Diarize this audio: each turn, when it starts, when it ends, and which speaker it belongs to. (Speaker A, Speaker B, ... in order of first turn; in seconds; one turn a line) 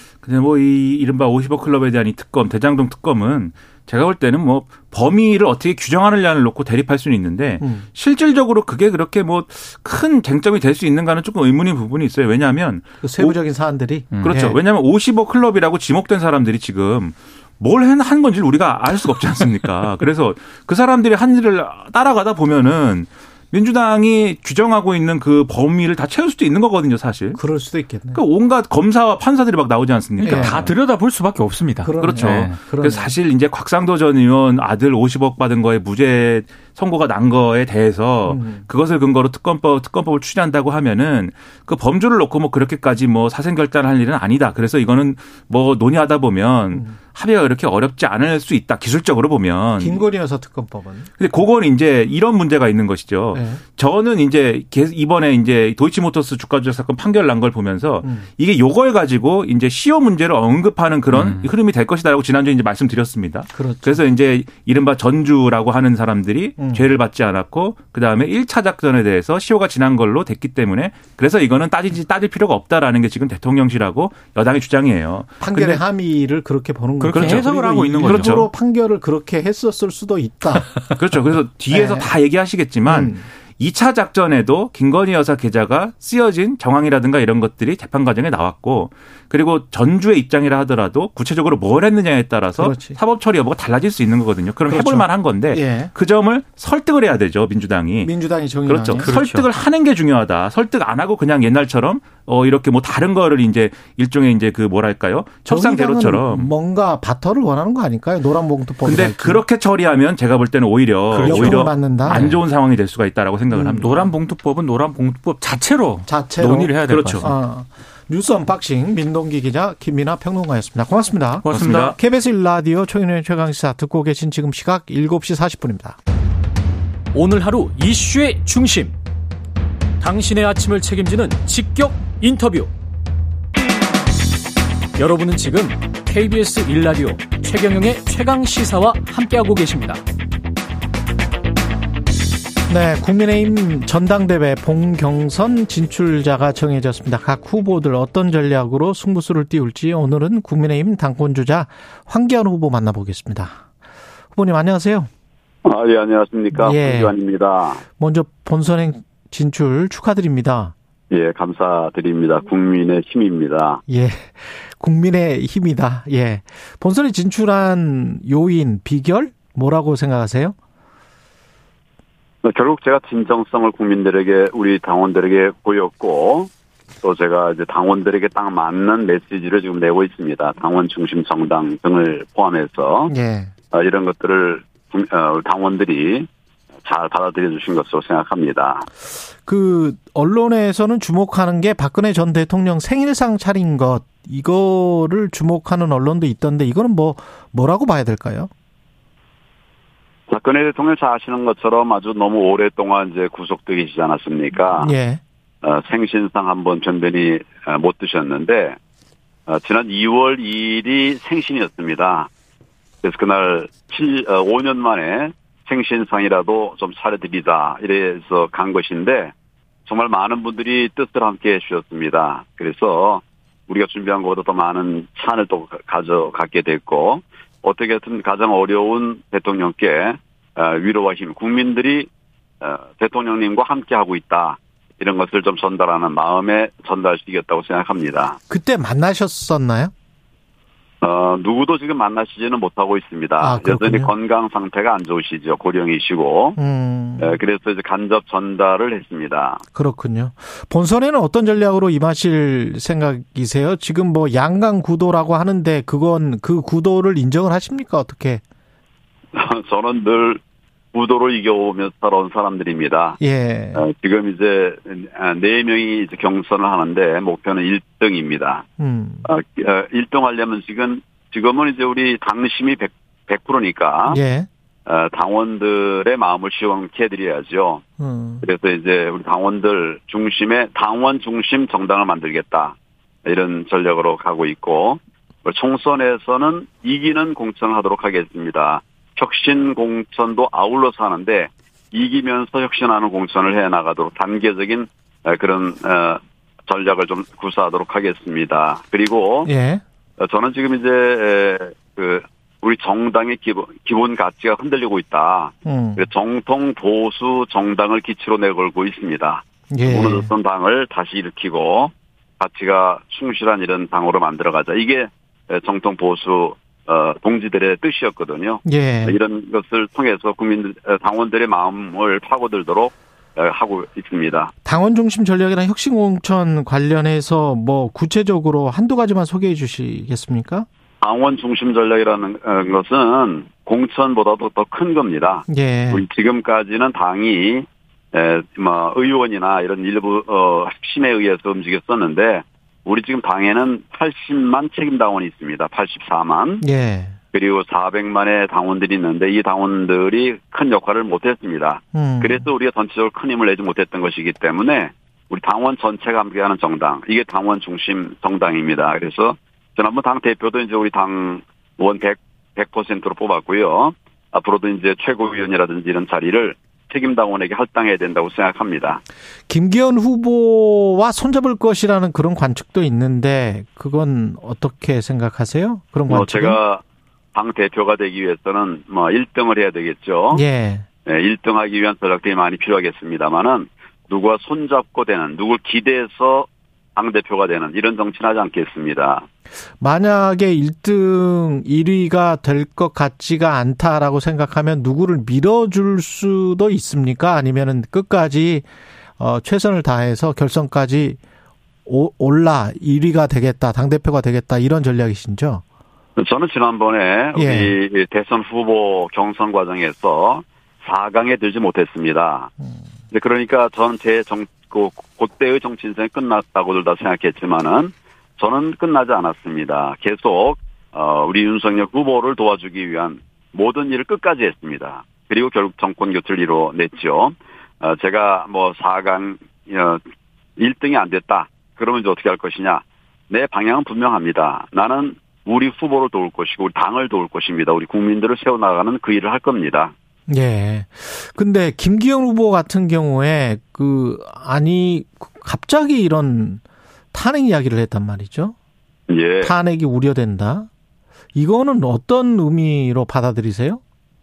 Speaker A: 0.2-13.4
Speaker B: 7.6-7.9
Speaker B: 13.0-14.6
Speaker C: 14.1-14.4
Speaker A: 14.2-27.4
Speaker B: 27.4-28.2
Speaker A: 28.1-30.7
Speaker B: 30.2-30.7
Speaker C: 30.2-32.6
Speaker B: 31.8-33.1
Speaker A: 32.0-50.0
Speaker B: 38.3-38.7
Speaker B: 49.8-51.1
Speaker A: 51.2-75.8
Speaker B: 53.3-53.6
Speaker B: 58.0-58.3
Speaker C: 61.1-61.5
Speaker B: 63.5-64.0
Speaker B: 66.6-66.9
Speaker B: 75.4-80.9
Speaker C: 77.0-78.4
Speaker A: 77.1-78.5
Speaker A: 80.9-98.1
Speaker B: 81.7-82.1
Speaker B: 82.8-83.3
Speaker B: 92.6-93.0
Speaker B: 94.7-95.9
Speaker B: 98.0-99.1
Speaker A: 98.7-106.5
Speaker C: 99.0-99.5
Speaker B: 105.5-109.4
Speaker A: 108.8-114.1
Speaker B: 111.1-112.3
Speaker C: 111.2-112.4
Speaker B: 113.5-113.9
Speaker C: 113.8-117.3
Speaker B: 116.1-126.0
Speaker A: 116.9-117.3
Speaker C: 121.4-122.0
Speaker A: 121.5-122.0
Speaker D: 127.1-129.0
Speaker D: 130.0-132.7
Speaker D: 135.0-140.0
Speaker B: 142.7-153.6
Speaker B: 154.3-155.1
Speaker E: 155.7-157.8
Speaker B: 156.5-157.1
Speaker B: 158.0-160.7
Speaker E: 161.1-163.8
Speaker B: 163.9-170.6
Speaker E: 172.4-176.5
Speaker E: 177.0-183.1
Speaker B: 183.1-183.5
Speaker E: 183.7-186.3
Speaker E: 186.8-188.9
Speaker B: 189.4-198.5
Speaker E: 200.3-204.9
Speaker B: 204.7-205.2
Speaker E: 205.6-208.8
Speaker E: 209.5-212.3
Speaker E: 213.0-219.3
Speaker E: 219.9-232.1
Speaker E: 232.6-238.4
Speaker B: 238.5-239.9
Speaker E: 241.0-246.6
Speaker B: 243.4-244.1
Speaker B: 246.6-247.4
Speaker E: 247.2-249.6
Speaker B: 249.7-258.4
Speaker E: 259.3-260.4
Speaker E: 260.9-263.2
Speaker B: 263.2-263.9
Speaker E: 263.7-268.6
Speaker B: 268.8-269.3
Speaker E: 269.3-274.2
Speaker B: 274.1-274.5
Speaker E: 274.9-277.8
Speaker B: 278.0-278.5
Speaker E: 278.4-282.8
Speaker E: 283.3-299.5
Speaker B: 299.4-299.8
Speaker E: 300.2-324.5
Speaker B: 305.6-306.1
Speaker B: 309.7-310.3
Speaker B: 318.6-319.2
Speaker B: 324.6-330.7
Speaker E: 331.0-346.6
Speaker B: 335.5-336.1
Speaker B: 346.6-347.2
Speaker E: 347.3-369.0
Speaker B: 351.9-352.5
Speaker B: 369.5-376.6
Speaker E: 376.1-376.8
Speaker E: 377.3-380.4
Speaker B: 380.3-380.9
Speaker E: 381.1-389.3
Speaker B: 389.8-401.2
Speaker B: 401.9-405.6
Speaker E: 406.2-412.5
Speaker B: 407.4-407.8
Speaker E: 413.1-430.0
Speaker E: 430.6-439.9
Speaker B: 440.3-448.6
Speaker E: 449.1-449.5
Speaker B: 449.4-450.7
Speaker B: 451.4-453.8